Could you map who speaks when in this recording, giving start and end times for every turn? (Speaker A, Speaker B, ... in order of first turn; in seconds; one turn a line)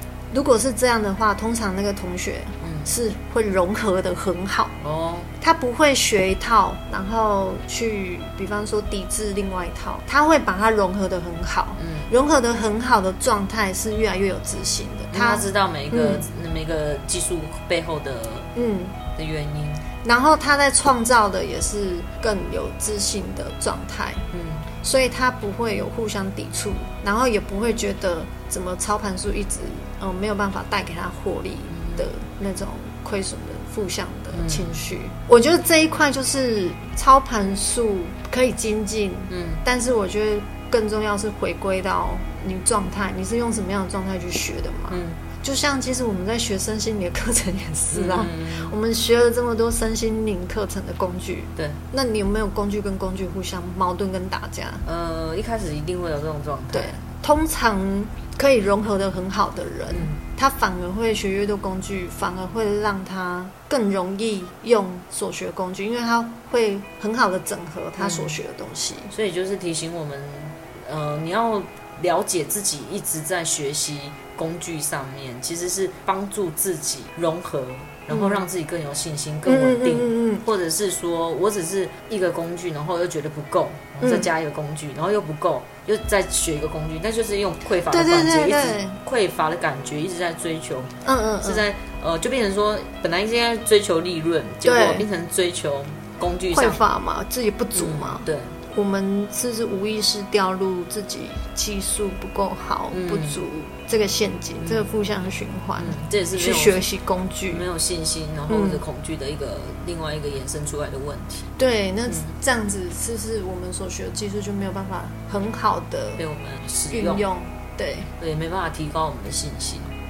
Speaker A: 0.3-4.8
Speaker B: 2.6-2.9
Speaker B: 4.8-5.3
Speaker A: 5.4-16.2
Speaker B: 11.8-12.1
Speaker B: 15.1-18.5
Speaker A: 18.5-19.0
Speaker B: 19.1-19.8
Speaker A: 20.0-24.2
Speaker B: 24.3-24.7
Speaker A: 24.8-54.8
Speaker B: 31.7-32.1
Speaker B: 34.3-34.8
Speaker B: 39.3-39.6
Speaker B: 44.9-45.2
Speaker B: 47.9-48.7
Speaker B: 54.8-57.0
Speaker A: 56.7-69.1
Speaker B: 59.9-60.2
Speaker B: 68.0-68.4
Speaker B: 69.1-96.8
Speaker A: 78.1-78.5
Speaker A: 79.5-80.4
Speaker A: 84.0-84.3
Speaker A: 87.9-89.0
Speaker A: 91.0-91.7
Speaker A: 94.6-95.0
Speaker A: 96.5-107.6
Speaker B: 97.7-98.5
Speaker B: 102.9-103.4
Speaker B: 105.8-106.8
Speaker B: 107.5-111.5
Speaker A: 108.5-108.8
Speaker A: 111.6-116.2
Speaker B: 116.2-117.2
Speaker A: 116.9-118.1
Speaker B: 118.2-119.9